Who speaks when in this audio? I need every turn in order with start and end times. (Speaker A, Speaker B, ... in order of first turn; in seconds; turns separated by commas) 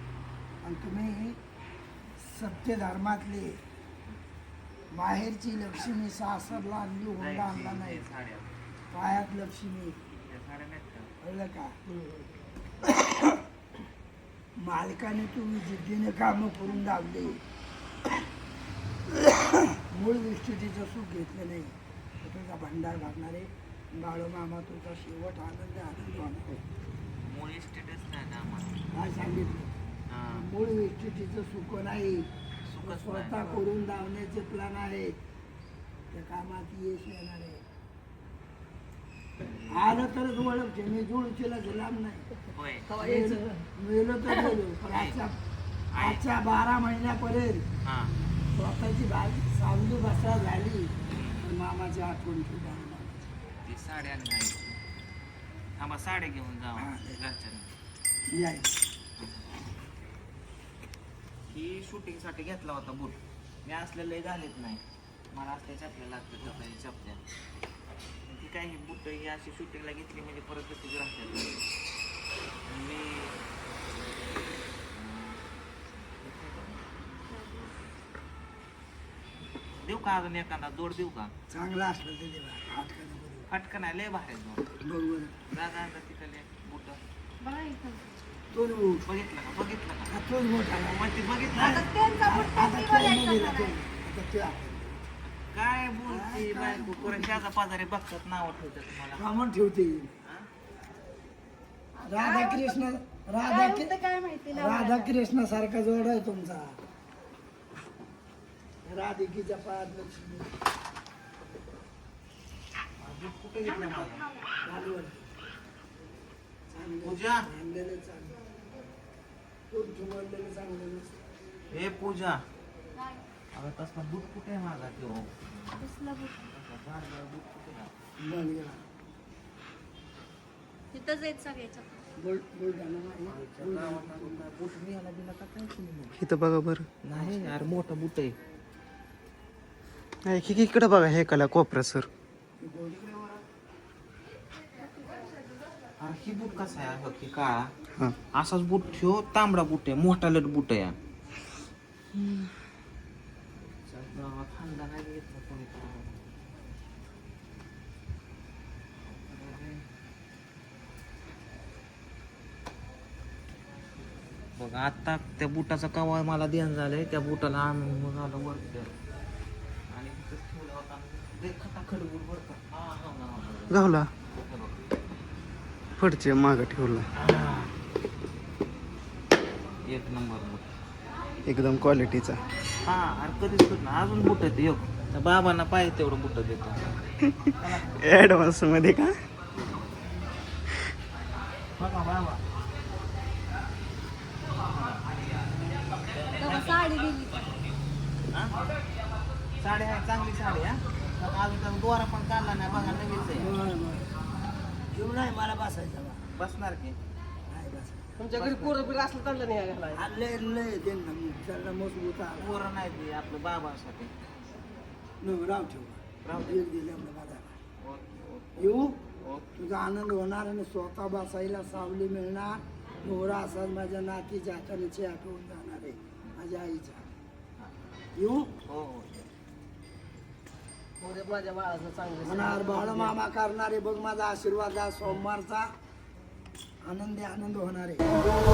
Speaker A: 0.6-1.4, Speaker A: 2.2-3.6, Speaker A: 4.9-8.1, Speaker B: 7.2-8.5, Speaker A: 8.9-10.0, Speaker B: 10.1-11.1, Speaker A: 11.2-11.8, Speaker A: 12.8-13.3, Speaker A: 14.6-17.4, Speaker A: 19.2-26.6, Speaker B: 27.2-28.8, Speaker A: 28.9-29.7, Speaker B: 30.1-30.5, Speaker A: 30.3-32.3, Speaker B: 32.7-33.6, Speaker A: 32.8-35.2, Speaker A: 36.1-37.6, Speaker B: 39.5-39.9, Speaker A: 39.7-42.3, Speaker B: 42.5-42.9, Speaker C: 42.9-43.6, Speaker A: 43.0-45.4, Speaker B: 44.9-45.2, Speaker B: 46.0-46.2, Speaker A: 46.0-47.7, Speaker B: 47.8-48.1, Speaker A: 48.5-53.3, Speaker B: 51.1-51.5, Speaker B: 53.6-54.8, Speaker B: 55.8-57.7, Speaker A: 56.8-57.2, Speaker A: 58.3-58.7, Speaker B: 59.2-59.4, Speaker B: 61.5-67.2, Speaker B: 68.3-71.6, Speaker B: 72.7-73.4, Speaker B: 74.9-75.4, Speaker B: 76.0-76.8, Speaker D: 77.3-77.7, Speaker B: 79.8-81.3, Speaker A: 81.5-83.5, Speaker B: 83.5-84.7, Speaker A: 84.8-85.4, Speaker B: 85.5-87.0, Speaker D: 87.4-88.1, Speaker A: 88.5-89.0, Speaker B: 89.0-90.1, Speaker A: 90.1-95.0, Speaker B: 90.7-91.9, Speaker D: 91.7-93.7, Speaker B: 95.5-99.2, Speaker A: 96.1-97.4, Speaker A: 99.2-100.1, Speaker D: 102.0-102.8, Speaker A: 102.1-103.9, Speaker D: 103.4-105.1, Speaker A: 104.5-106.8, Speaker A: 108.8-110.5, Speaker B: 113.0-114.3, Speaker D: 113.8-114.0, Speaker A: 114.6-115.3, Speaker A: 116.7-118.4, Speaker B: 117.0-117.5, Speaker A: 119.7-121.2, Speaker B: 121.7-122.4, Speaker B: 123.5-125.9, Speaker D: 125.8-126.5, Speaker B: 126.4-127.9, Speaker A: 128.2-128.8, Speaker D: 130.9-131.9, Speaker A: 132.2-134.3, Speaker B: 133.3-136.2, Speaker E: 136.2-136.9, Speaker B: 137.0-138.4, Speaker E: 140.2-142.1, Speaker A: 142.6-143.4, Speaker B: 146.0-147.7, Speaker B: 148.3-150.9, Speaker B: 153.7-156.2, Speaker B: 159.0-159.8, Speaker B: 164.6-168.9, Speaker B: 169.9-174.8, Speaker E: 173.7-174.1, Speaker E: 176.0-177.1, Speaker B: 177.2-177.7, Speaker B: 179.9-180.7, Speaker E: 181.5-182.4, Speaker B: 182.8-186.8, Speaker B: 187.6-188.0, Speaker E: 187.9-189.2, Speaker B: 191.8-192.4, Speaker B: 194.7-195.0, Speaker B: 196.1-197.1, Speaker D: 196.4-197.5, Speaker B: 199.6-203.5, Speaker A: 203.4-204.1, Speaker A: 204.9-206.2, Speaker B: 206.3-207.0, Speaker A: 207.5-208.7, Speaker C: 208.2-210.1, Speaker B: 208.4-208.9, Speaker A: 209.9-212.6, Speaker B: 212.4-214.1, Speaker A: 215.2-217.6, Speaker B: 216.2-216.6, Speaker B: 217.8-219.5, Speaker A: 218.6-219.0, Speaker A: 219.6-227.1, Speaker A: 228.2-228.5, Speaker B: 228.7-229.3, Speaker C: 231.0-233.2, Speaker A: 232.2-235.7, Speaker A: 236.8-238.2